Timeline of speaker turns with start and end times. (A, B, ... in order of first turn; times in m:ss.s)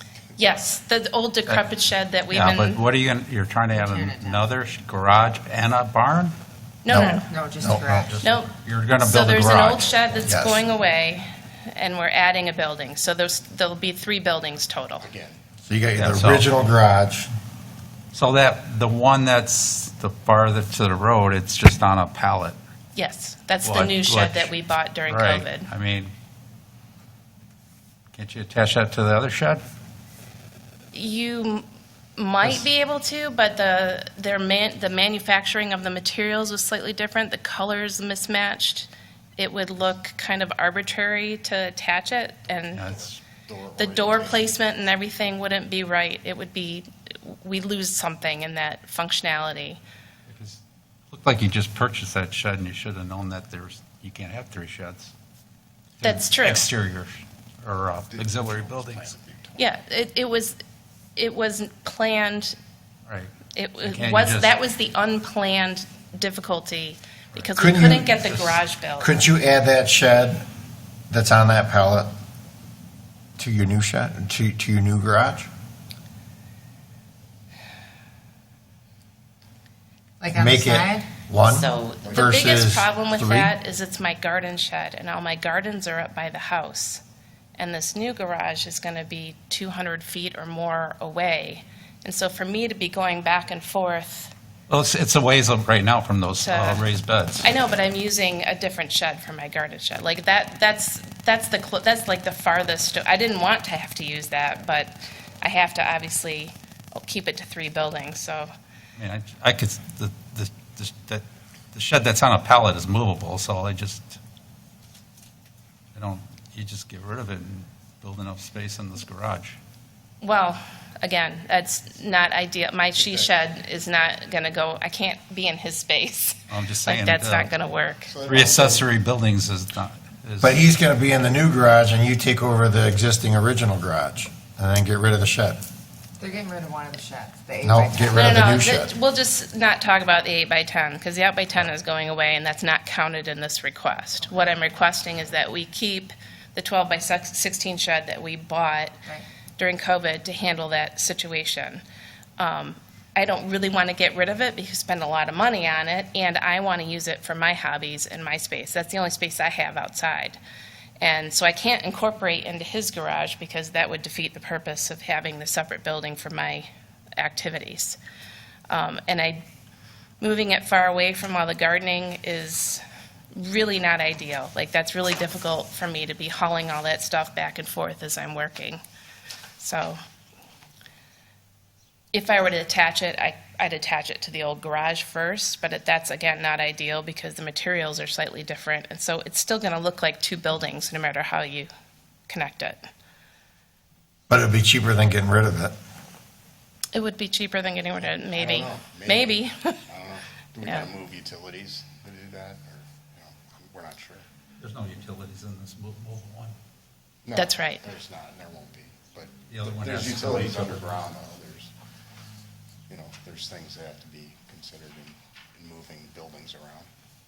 0:00.4-0:02.8 A
0:02.3-0:06.3 B
0:03.7-0:04.6 C
0:06.8-0:07.3 A
0:06.9-0:08.1 D
0:07.1-0:08.2 C
0:08.1-0:10.1 B
0:08.2-0:15.1 A
0:10.2-0:10.6 D
0:15.0-0:15.4 E
0:15.6-0:17.3 D
0:16.0-0:16.6 B
0:18.1-0:22.6 B
0:23.0-0:25.7 A
0:23.6-0:24.5 B
0:25.1-0:26.1 B
0:28.1-0:29.6 B
0:30.9-0:31.6 A
0:32.2-0:42.9 A
0:42.7-0:43.2 B
0:42.8-0:44.6 E
0:43.8-0:49.8 A
0:50.3-0:55.1 B
0:56.0-0:59.1 B
0:56.0-0:56.7 A
0:58.1-0:59.8 E
0:59.6-1:00.6 A
1:01.2-1:02.6 A
1:03.1-1:04.6 B
1:03.5-1:09.3 A
1:07.6-1:08.2 D
1:08.2-1:08.6 B
1:09.0-1:10.4 D
1:11.1-1:12.1 D
1:13.4-1:15.5 D
1:20.2-1:21.2 C
1:20.3-1:23.5 D
1:21.4-1:27.0 A
1:27.6-1:34.3 A
1:34.7-1:37.5 B
1:36.4-1:36.9 A
1:37.4-1:48.5 A
1:49.0-1:54.2 B
1:56.0-1:59.6 B
2:00.2-2:08.1 A
2:06.5-2:07.5 B
2:08.1-2:08.9 E
2:08.3-2:10.6 B
2:10.4-2:15.6 D
2:16.2-2:18.3 C
2:17.6-2:18.9 D
2:18.1-2:29.0 A
2:29.6-2:31.8 A
2:32.4-2:40.4 A
2:41.0-2:48.0 A
2:48.7-2:49.4 A
2:50.2-2:52.8 A
2:53.3-2:58.8 A
2:59.6-3:00.0 A
3:02.1-3:11.7 A
3:12.3-3:12.8 A
3:14.3-3:15.8 D
3:16.9-3:19.8 A
3:18.3-3:24.2 E
3:20.6-3:20.9 A
3:24.6-3:26.6 B
3:27.2-3:31.7 E
3:27.3-3:27.9 A
3:29.5-3:30.9 B
3:32.9-3:36.9 E